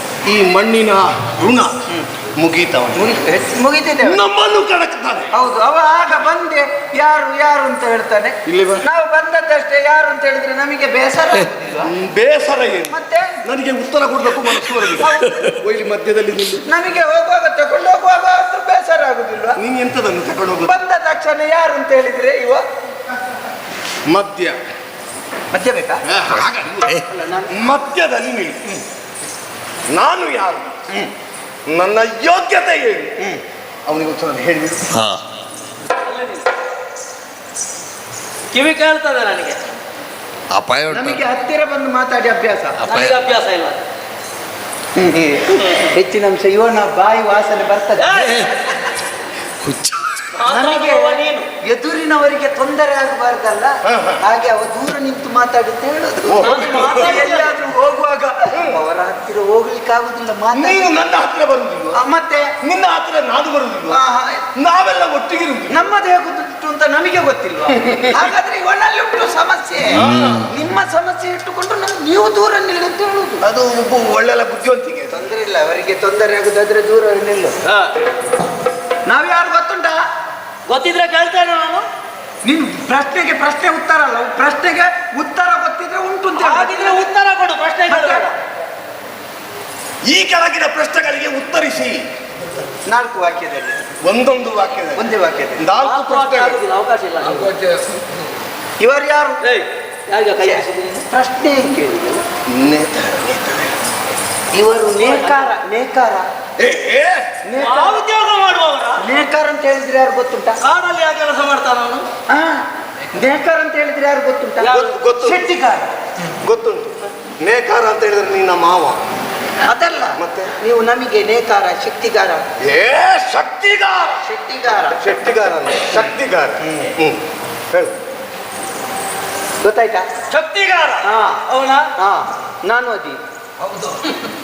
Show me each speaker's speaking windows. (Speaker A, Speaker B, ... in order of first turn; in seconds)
Speaker A: 0.2-1.8, 2.4-3.0, 4.0-5.3, 8.4-8.8, 11.8-16.7, 19.6-20.8, 24.1-24.6, 26.1-26.9, 27.5-28.7, 29.9-30.7, 31.7-33.1, 33.9-34.9, 53.9-54.2, 56.3-57.2, 58.5-58.8, 60.5-62.0, 62.6-64.0, 64.5-65.8, 69.9-70.5, 73.4-75.2, 90.0-92.0, 94.0-95.0, 95.6-96.6, 102.5-103.7, 106.6-107.3, 114.7-115.5, 116.4-119.0, 120.2-120.5, 122.6-124.2, 124.9-128.0
Speaker B: 2.9-4.2, 5.3-11.9, 12.9-13.3, 15.0-15.5, 16.6-19.6, 20.6-22.6, 25.5-26.0, 27.1-27.5, 40.9-42.8, 45.0-48.1, 50.5-60.9, 61.9-62.5, 63.9-64.4, 65.7-73.4, 75.1-77.5, 79.0-80.0, 82.4-87.1, 87.9-88.3, 92.9-93.8, 95.0-95.6, 98.8-99.4, 100.5-102.2, 104.5-106.3, 107.4-108.0, 109.0-110.6, 112.3-115.9, 119.6-122.5, 124.2-125.0, 126.6-126.9, 129.6-130.1, 131.0-131.4, 131.9-133.2
Speaker C: 26.3-27.0, 34.9-35.2, 40.5-41.2, 42.8-43.1, 49.6-50.2
Speaker D: 36.0-36.5, 38.5-39.6, 42.9-43.8, 45.6-45.9, 48.0-48.6, 50.3-51.5, 56.4-57.5, 77.7-77.9, 80.7-81.8, 86.3-88.3, 95.8-97.6, 99.4-101.0, 105.0-105.5, 107.6-109.0, 110.6-112.1, 114.6-114.9, 130.3-131.9